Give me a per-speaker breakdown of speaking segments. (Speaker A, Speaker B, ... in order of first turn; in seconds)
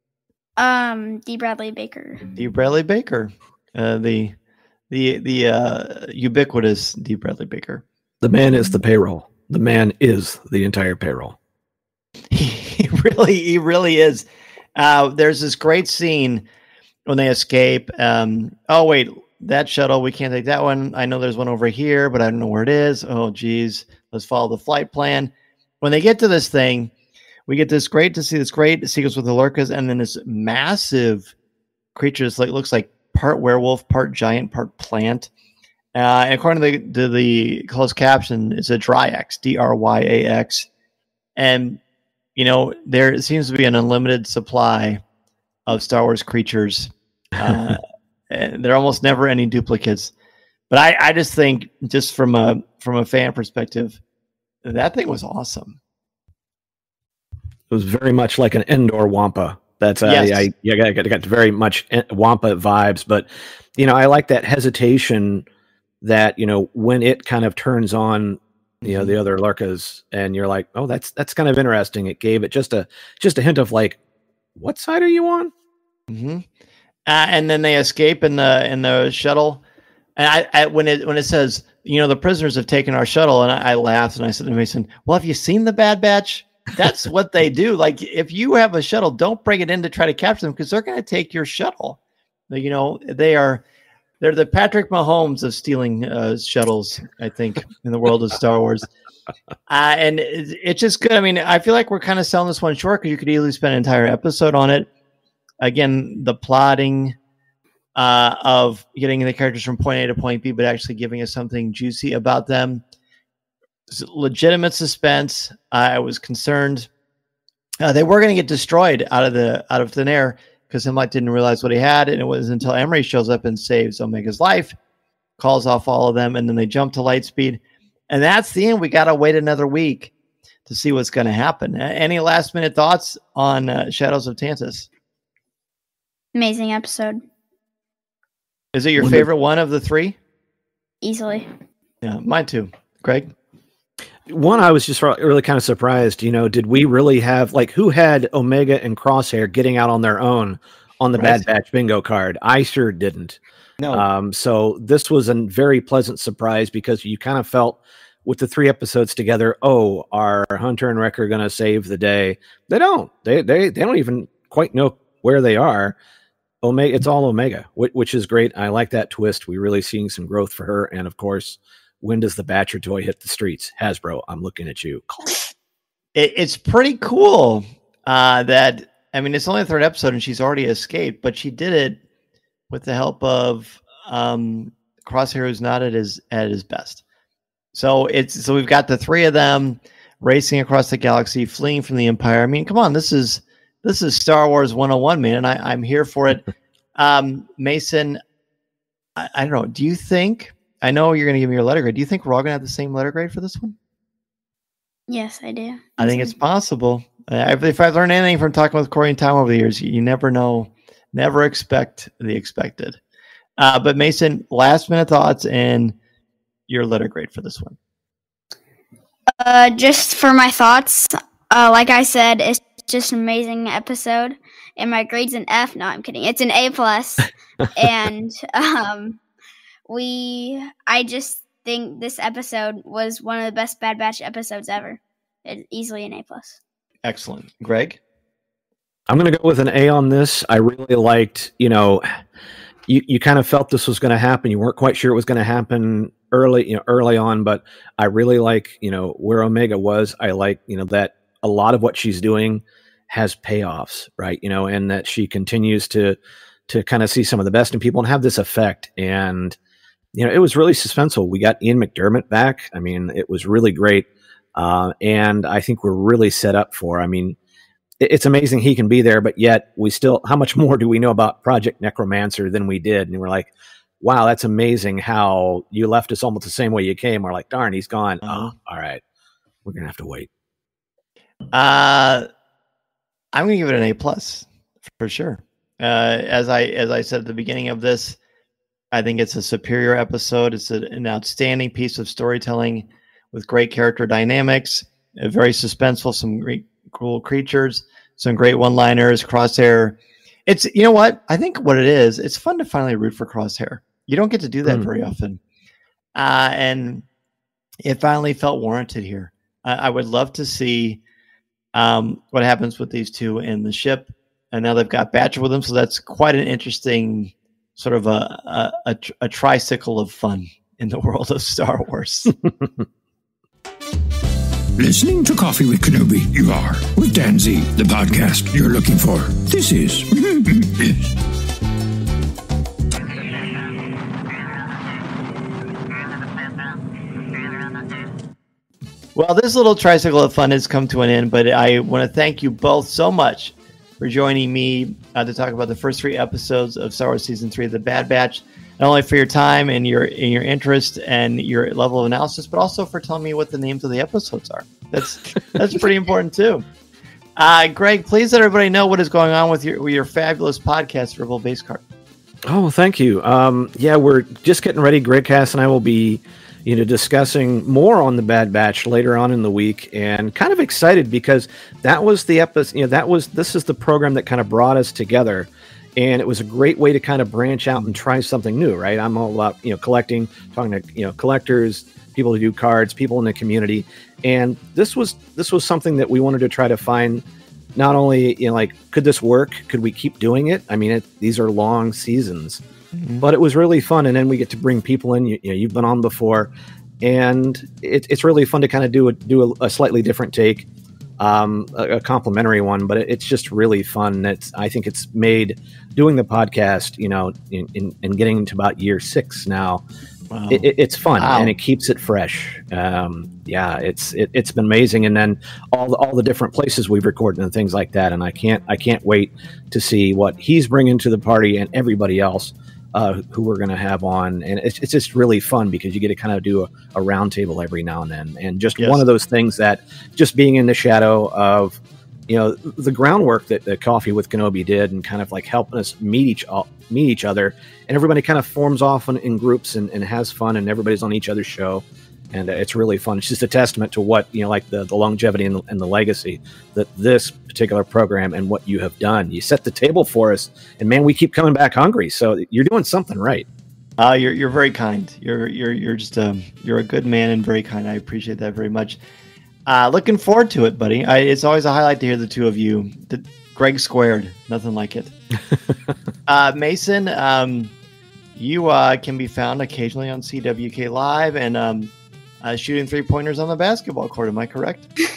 Speaker A: 0.6-2.2, 136.3-137.2, 141.0-141.5, 205.1-206.3, 219.3-229.2, 229.9-236.6
Speaker B: 2.4-4.4, 4.9-7.8, 12.3-16.5, 17.1-26.9, 27.5-31.3, 31.9-35.3, 35.9-40.7, 41.4-41.8, 42.4-45.0, 45.7-50.1, 50.7-54.0, 54.6-55.8, 60.0-60.5, 68.8-69.1, 76.1-76.5, 77.1-79.6, 80.2-92.0, 92.5-93.6, 94.2-98.9, 99.7-104.9, 105.6-107.2, 108.0-112.8, 113.9-116.9, 117.8-124.8, 125.4-130.1, 130.7-134.9, 138.7-140.2, 142.0-143.3, 151.1-151.5, 153.8-154.1, 176.2-182.0, 182.7-187.0, 187.7-198.2, 199.2-203.8, 206.0-213.0, 213.6-216.0, 216.7-217.8, 237.0-238.0, 278.2-278.5, 281.5-282.3, 283.3-288.2, 288.9-305.4, 306.2-307.1, 307.8-311.0, 311.7-322.4, 339.1-356.6, 357.4-361.8, 392.9-393.3, 410.3-411.6, 428.8-429.1, 454.0-459.0, 459.7-465.1, 466.3-467.7, 468.4-474.9
Speaker C: 8.2-11.4, 57.7-65.5, 66.0-74.0, 74.6-75.5, 144.3-153.4, 153.9-166.0, 166.6-175.4, 239.1-242.0, 242.9-256.2, 256.7-259.6, 260.1-267.4, 268.0-273.5, 274.0-279.0, 279.6-280.3, 362.5-387.2, 387.8-392.6, 393.2-396.5, 397.0-400.7, 401.2-409.8, 410.5-453.5
Speaker D: 324.8-331.1